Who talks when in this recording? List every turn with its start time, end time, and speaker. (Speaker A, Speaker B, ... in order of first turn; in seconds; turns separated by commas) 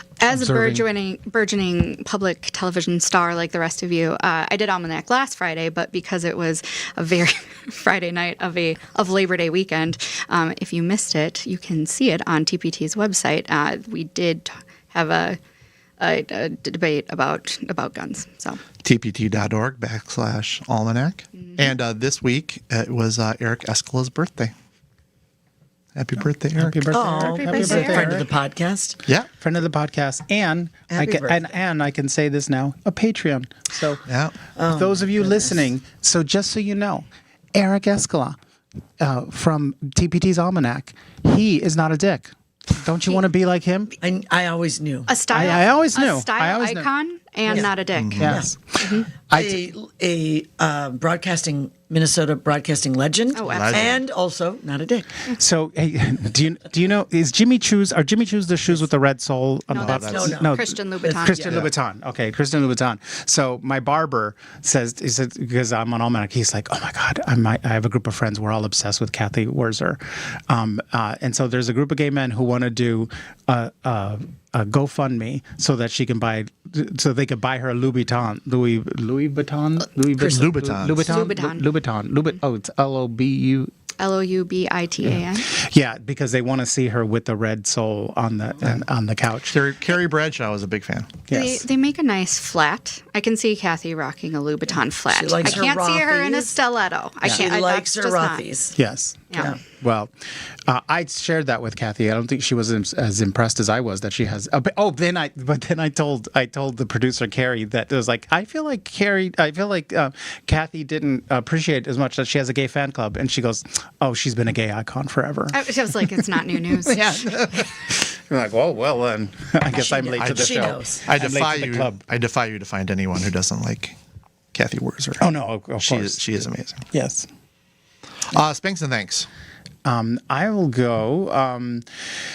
Speaker A: 0.2-15.4, Speaker B: 0.2-0.8, Speaker A: 16.0-18.6, Speaker C: 18.8-24.5, Speaker C: 25.9-26.9, Speaker B: 26.6-28.3, Speaker D: 26.9-29.0, Speaker A: 27.2-28.1, Speaker B: 29.3-34.0, Speaker D: 30.9-31.5, Speaker C: 34.1-34.3, Speaker D: 34.5-35.7, Speaker B: 34.6-38.4, Speaker B: 39.0-43.9, Speaker D: 44.0-45.5, Speaker A: 45.1-49.1, Speaker B: 45.3-46.9, Speaker B: 47.5-49.6, Speaker C: 47.9-48.3, Speaker D: 48.2-48.5, Speaker D: 49.1-55.2, Speaker A: 53.3-54.0, Speaker C: 53.4-54.0, Speaker B: 55.3-83.7, Speaker A: 59.7-61.5, Speaker C: 59.8-60.2, Speaker D: 60.1-61.7, Speaker C: 80.2-81.1, Speaker A: 81.0-81.6, Speaker A: 84.0-85.5, Speaker B: 85.4-89.5, Speaker C: 89.5-91.1, Speaker B: 91.3-91.6, Speaker A: 91.3-98.5, Speaker D: 95.1-96.6, Speaker D: 97.2-98.8, Speaker B: 98.8-100.1, Speaker B: 100.7-122.0, Speaker A: 115.5-117.1, Speaker D: 119.7-121.0, Speaker C: 120.2-124.0, Speaker C: 124.5-125.2, Speaker B: 125.2-126.2, Speaker C: 125.8-126.8, Speaker B: 126.9-127.3, Speaker C: 128.3-129.3, Speaker B: 129.8-131.8